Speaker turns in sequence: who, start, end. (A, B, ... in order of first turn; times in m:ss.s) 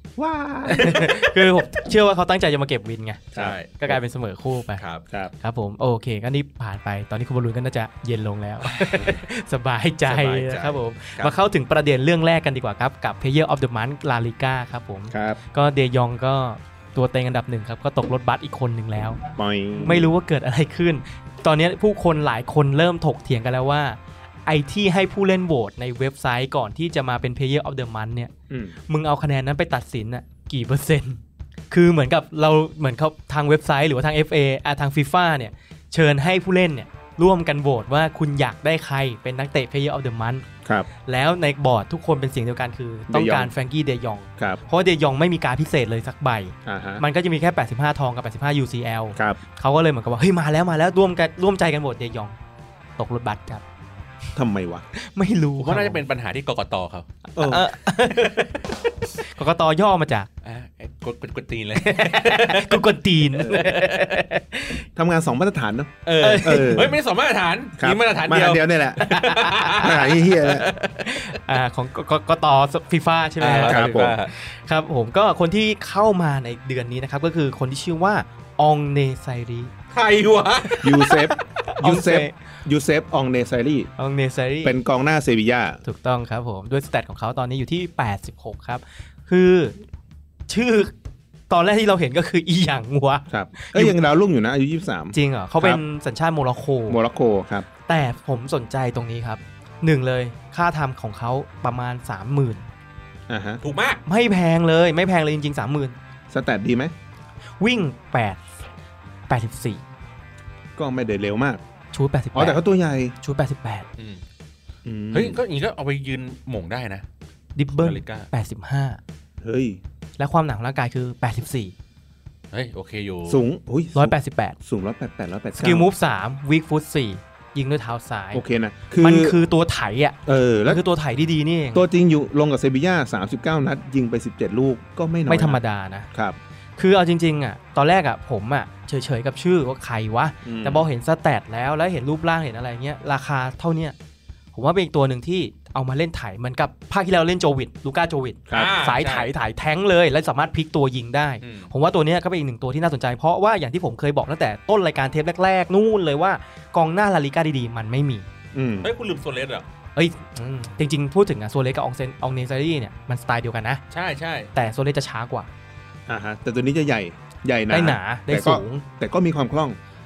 0:00.2-0:00.9 A
0:00.6-0:04.8 B
0:00.8-0:01.7 C
0:03.3-0:04.0 A
0:03.3-0:03.7 C
0:04.8-0:05.0 C
0:05.4-0:19.2 B
0:08.7-0:09.1 C
0:10.0-0:11.3 C
0:15.1-0:15.4 A
0:19.4-0:20.1 A
0:19.8-0:28.3 B
0:28.5-0:28.8 A
0:28.9-0:40.5 B
0:41.1-0:52.4 B
0:43.1-0:43.5 A
0:46.6-0:47.0 A
0:49.2-0:49.4 A
0:53.0-0:53.6 B
0:54.4-0:54.8 A
0:55.0-0:56.0 B
0:55.6-0:57.1 C
0:57.4-0:57.6 A
0:57.4-0:58.5 B
0:58.1-0:58.7 C
0:59.4-1:00.3 B
1:00.4-1:04.2 C
1:01.8-1:04.8 B
1:03.4-1:03.7 A
1:05.0-1:07.0 A
1:06.0-1:11.2 C
1:06.2-1:06.9 B
1:07.8-1:09.0 A
1:09.0-1:09.9 B
1:09.7-1:10.7 A
1:10.9-1:19.7 B
1:13.4-1:14.3 C
1:13.6-1:14.2 A
1:19.9-1:20.8 C
1:20.7-1:22.3 B
1:20.8-1:23.9 A
1:24.0-1:24.8 B
1:24.6-1:25.8 A
1:25.8-1:29.8 B
1:30.5-1:30.9 B
1:31.5-1:34.0 B
1:33.3-1:35.8 A
1:35.1-1:37.0 B
1:36.9-1:37.7 A
1:37.9-1:42.7 B
1:43.3-1:43.6 A
1:43.6-1:44.0 C
1:44.1-1:46.0 B
1:46.3-1:46.9 A
1:47.6-1:48.4 B
1:49.3-1:49.8 B
1:50.8-1:51.6 A
1:51.9-1:52.6 B
1:52.4-1:53.2 A
1:53.2-1:53.9 B
1:54.8-1:55.4 A
1:55.1-1:57.1 C
1:57.6-1:59.0 B
1:57.8-1:58.3 C
1:59.4-1:59.8 A
2:00.2-2:01.8 B
2:02.5-2:03.4 C
2:03.3-2:05.9 A
2:04.0-2:04.6 B
2:05.6-2:08.4 B
2:08.3-2:09.4 A
2:09.0-2:11.8 B
2:10.3-2:10.8 A
2:11.8-2:15.6 A
2:15.3-2:16.1 B
2:16.8-2:24.0 B
2:20.4-2:20.9 A
2:24.6-2:38.3 B
2:28.5-2:28.8 A
2:28.5-2:29.3 C
2:31.4-2:31.7 C
2:38.5-2:38.9 A
2:38.8-2:39.7 C
2:40.0-2:43.8 B
2:43.9-2:44.5 C
2:44.6-2:45.5 B
2:46.1-2:49.8 A
2:47.7-2:48.8 B